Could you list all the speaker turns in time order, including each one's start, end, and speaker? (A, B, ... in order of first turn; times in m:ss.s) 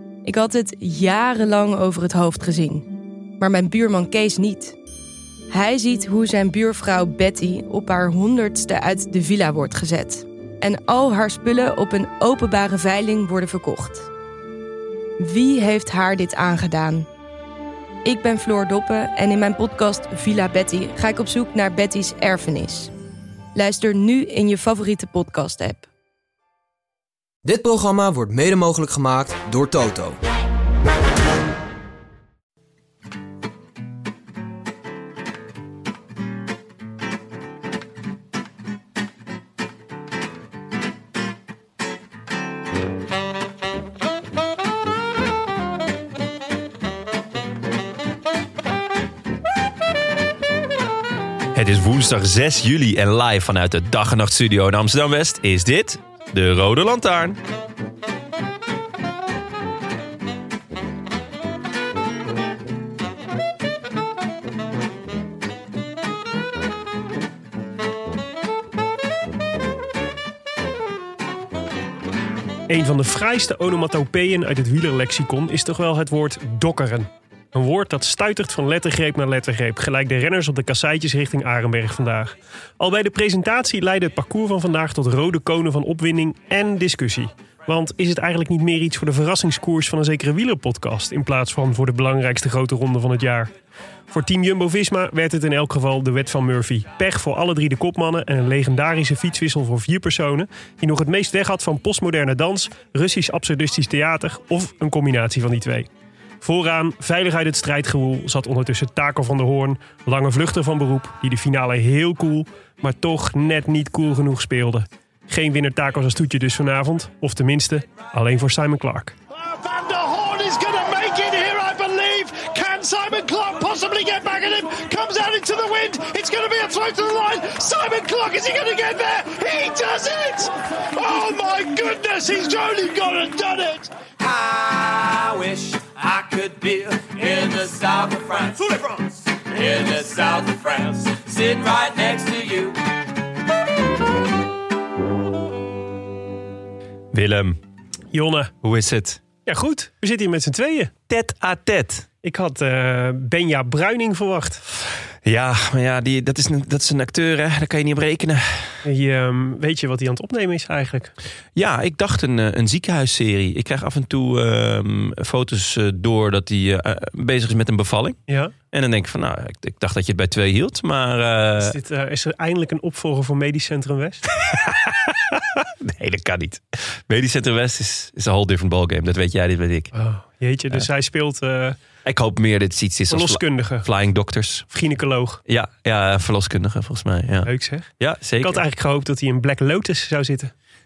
0:00.2-0:02.9 A
0:03.4-0:04.8 A
0:05.5-0:14.1 A
0:15.2-0:17.1 A
0:18.0-0:22.9 A
0:23.6-0:25.9 A
0:27.4-0:30.2 B
0:51.5-0:57.4 C
1:12.7-1:33.5 D
1:34.1-1:45.9 D
1:46.4-1:59.2 D
1:59.6-2:10.2 E
1:59.7-2:06.4 D
2:07.9-2:09.2 D
2:11.3-2:12.6 E
2:11.4-2:12.0 D
2:12.7-2:13.6 D
2:14.2-2:22.8 F
2:27.1-2:27.6 C
2:28.1-2:28.5 D
2:28.6-2:29.2 C
2:29.5-2:30.9 D
2:31.1-2:32.1 C
2:32.2-2:34.6 D
2:35.2-2:38.9 C
2:38.8-2:41.1 D
2:41.6-2:51.8 C
2:48.3-2:48.5 D
2:51.6-2:54.2 D
2:54.3-2:59.9 C
2:59.9-3:01.8 D
3:02.0-3:04.7 C
3:03.1-3:03.9 D
3:04.7-3:05.4 D
3:05.5-3:08.6 C
3:07.4-3:10.5 D